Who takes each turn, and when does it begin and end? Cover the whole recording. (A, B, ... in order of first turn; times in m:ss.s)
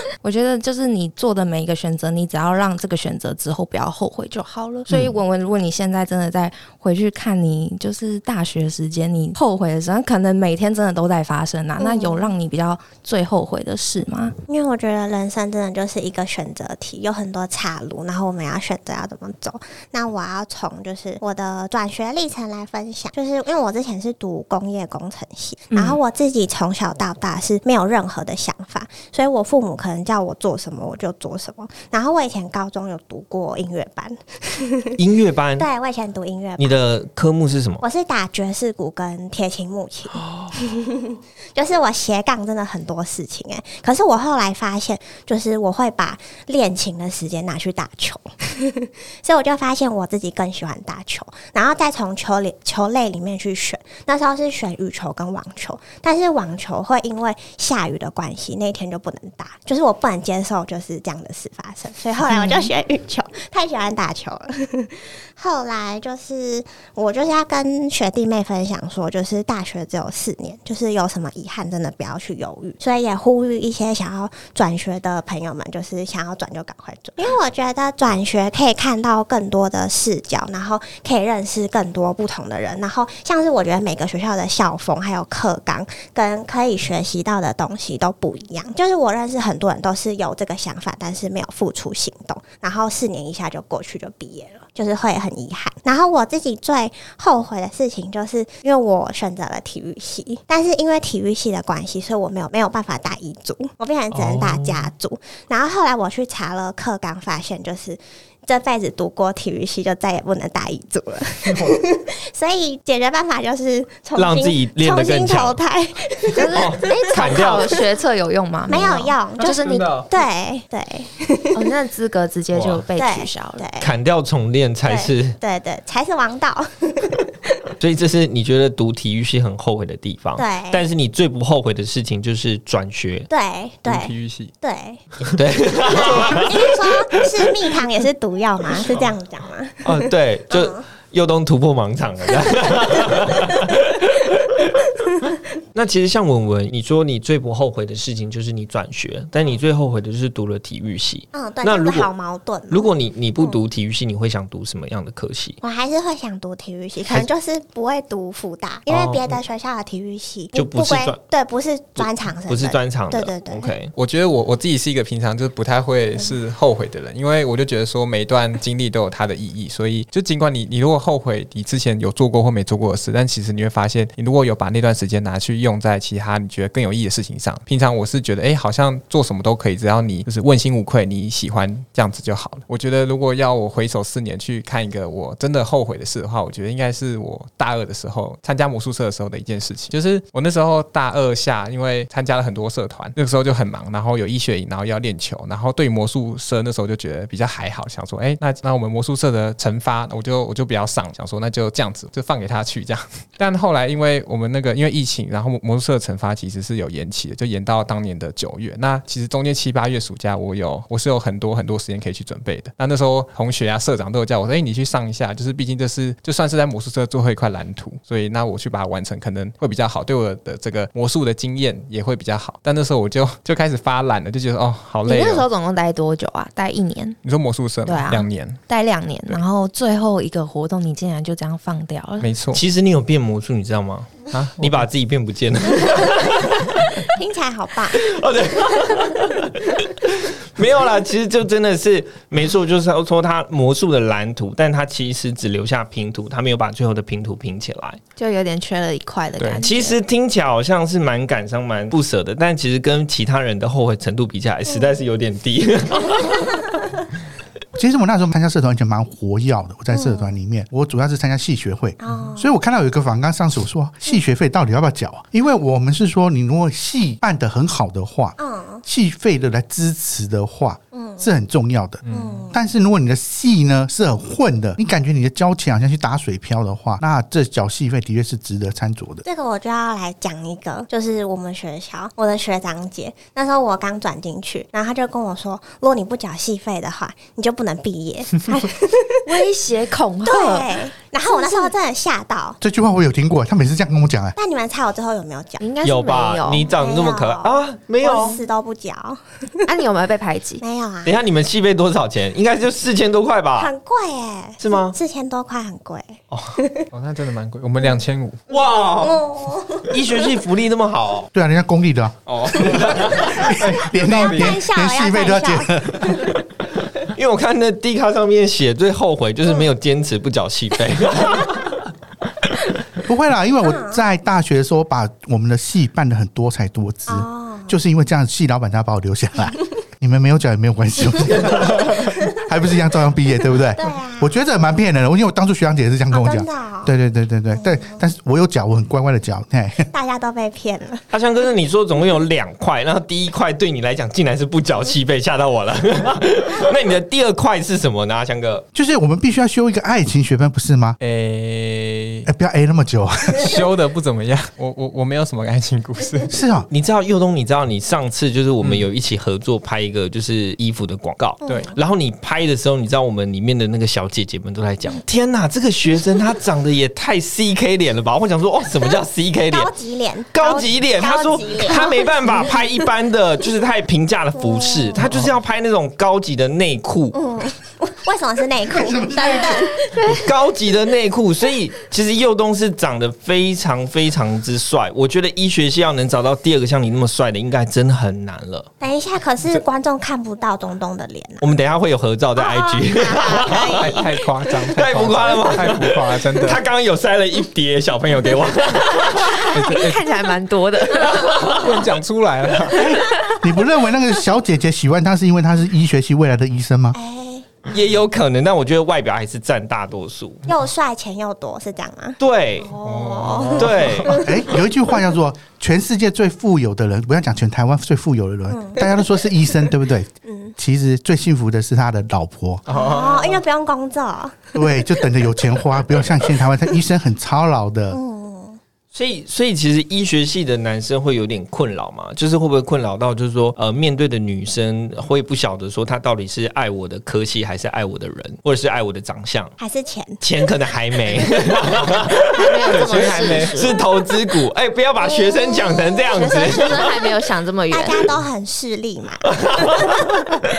0:00.2-0:14.3 A
0:11.8-0:12.3 B
0:14.5-0:34.9 B
0:25.7-0:26.0 A
0:35.0-0:35.7 C
0:35.6-0:36.8 B
0:36.6-0:37.8 C
0:37.8-1:57.8 B
0:40.2-0:40.5 C
1:02.3-1:02.7 A
1:44.1-1:44.9 C
1:54.2-1:55.6 C
1:56.3-1:59.9 A
1:56.4-1:57.7 C
1:58.7-1:59.5 B
1:59.4-2:00.0 C
1:59.6-2:00.1 D
2:00.1-2:01.6 B
2:01.5-2:03.6 A
2:02.5-2:02.8 C
2:03.0-2:03.9 B
2:03.8-2:05.4 C
2:04.8-2:07.2 B
2:07.8-2:13.3 C
2:10.4-2:10.8 B
2:13.3-2:15.0 B
2:13.8-2:14.5 D
2:15.4-2:17.1 C
2:15.9-2:20.8 B
2:19.8-2:24.6 C
2:25.7-2:32.1 C
2:31.3-2:33.6 B
2:32.7-2:35.6 C
2:35.6-2:43.7 B
2:38.9-2:39.4 C
2:40.5-2:41.2 C
2:42.0-2:43.9 C
2:43.9-3:45.4 D
3:45.0-3:47.2 A
3:47.2-3:48.6 D
3:47.8-3:52.3 A
3:52.2-3:52.6 D
3:52.5-3:56.8 C
3:54.3-3:54.9 D
3:57.1-3:58.1 B
3:58.0-4:08.0 C
4:08.2-4:10.0 A
4:09.4-4:09.6 D
4:09.6-4:16.6 C
4:14.7-4:14.9 B
4:17.8-4:39.2 E
4:19.9-4:20.3 B
4:22.0-4:22.5 B
4:28.4-4:28.8 B
4:30.9-4:31.2 B
4:32.0-4:32.5 D
4:32.1-4:32.6 B
4:39.2-4:49.1 B
4:49.2-4:50.7 A
4:50.3-4:52.6 B
4:51.2-4:51.7 A
4:52.6-4:54.4 E
4:54.4-4:55.6 B
4:55.6-4:56.7 A
4:55.8-4:58.4 C
4:56.7-4:59.6 B
4:59.6-5:00.6 A
5:00.6-5:01.1 B
5:01.0-5:03.7 C
5:03.6-5:06.9 B
5:04.6-5:05.0 C
5:06.3-5:06.6 C
5:06.9-5:08.4 D
5:08.5-5:09.2 C
5:09.0-5:10.0 B
5:09.9-5:11.3 C
5:11.3-5:16.3 E
5:12.3-5:13.4 C
5:13.4-5:14.6 D
5:14.0-5:15.8 B
5:17.1-5:21.8 C
5:23.0-5:39.9 E
5:23.6-5:24.0 B
5:27.1-5:27.8 B
5:33.7-5:34.3 B
5:36.1-5:36.9 B
5:37.6-5:38.0 B
5:39.9-5:41.0 B
5:41.1-5:48.6 C
5:48.7-5:51.0 E
5:51.0-5:52.3 D
5:52.2-5:53.5 E
5:53.3-5:56.3 D
5:56.3-5:56.7 E
5:56.7-6:09.7 C
6:01.4-6:01.7 B
6:01.4-6:01.7 D
6:09.5-6:12.6 B
6:10.3-6:17.2 C
6:14.4-6:15.0 B
6:17.1-6:20.2 B
6:18.7-6:19.8 E
6:20.1-6:28.7 C
6:28.8-6:31.5 B
6:31.4-6:34.0 C
6:32.4-6:34.7 B
6:33.6-6:36.6 D
6:34.7-6:39.5 C
6:39.1-6:41.3 A
6:39.4-6:40.1 D
6:40.9-6:41.9 C
6:41.3-6:43.0 D
6:42.7-6:47.0 E
6:46.9-6:47.5 B
6:47.6-6:50.4 C
6:50.5-6:54.3 B
6:52.2-6:52.8 C
6:52.8-6:54.3 D
6:53.5-6:54.2 C
6:54.2-7:02.6 E
6:58.5-6:59.0 B
7:00.2-7:00.5 B
7:02.7-7:03.4 D
7:02.7-7:04.8 B
7:04.5-7:08.0 E
7:07.9-7:08.6 B
7:08.9-7:19.6 C
7:19.6-7:20.2 B
7:20.2-7:26.9 C
7:22.3-7:23.8 A
7:22.7-7:23.6 D
7:25.0-7:26.8 B
7:26.1-7:28.1 A
7:27.7-7:30.2 B
7:29.3-7:30.2 C